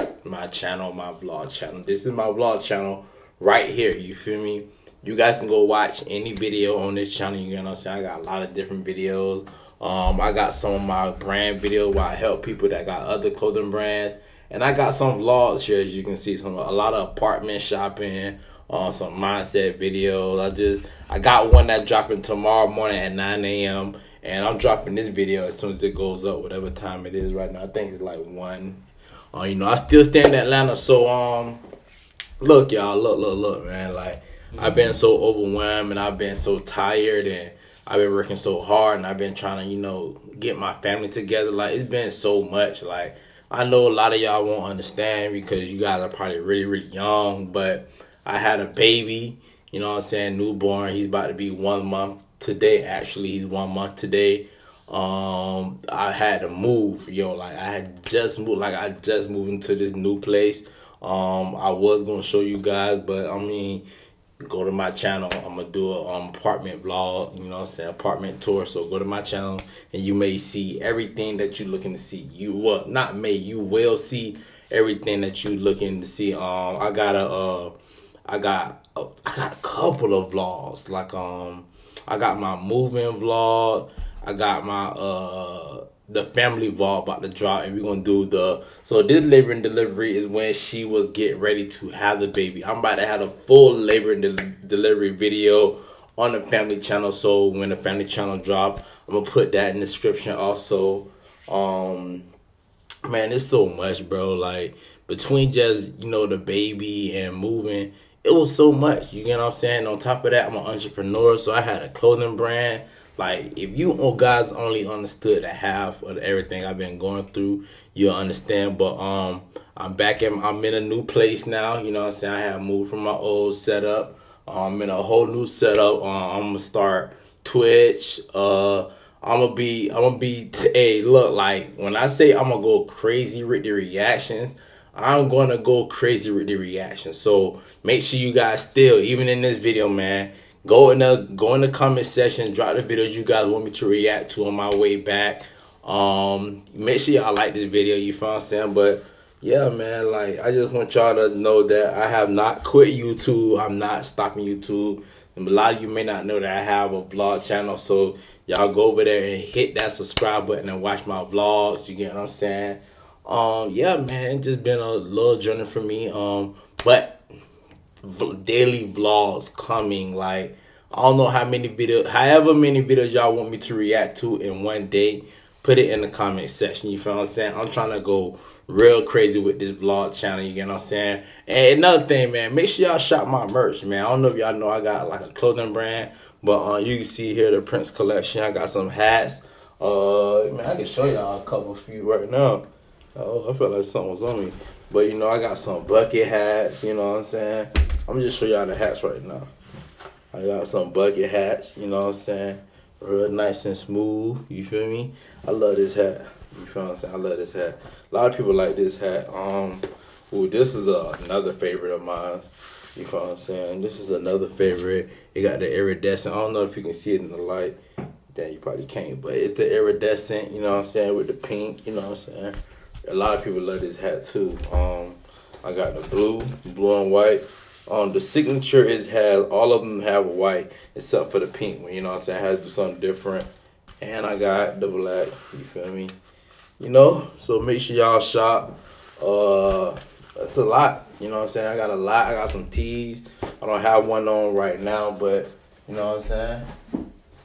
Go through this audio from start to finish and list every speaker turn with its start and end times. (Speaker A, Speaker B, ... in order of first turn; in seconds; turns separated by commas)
Speaker A: 0.2-28.8, Speaker A: 29.3-31.6, Speaker A: 32.4-63.8, Speaker A: 64.4-77.7, Speaker A: 78.3-102.2, Speaker A: 103.0-167.2, Speaker A: 168.0-192.6, Speaker A: 193.2-199.5, Speaker A: 200.3-217.8, Speaker A: 218.3-233.5, Speaker A: 234.0-236.1, Speaker A: 236.8-246.7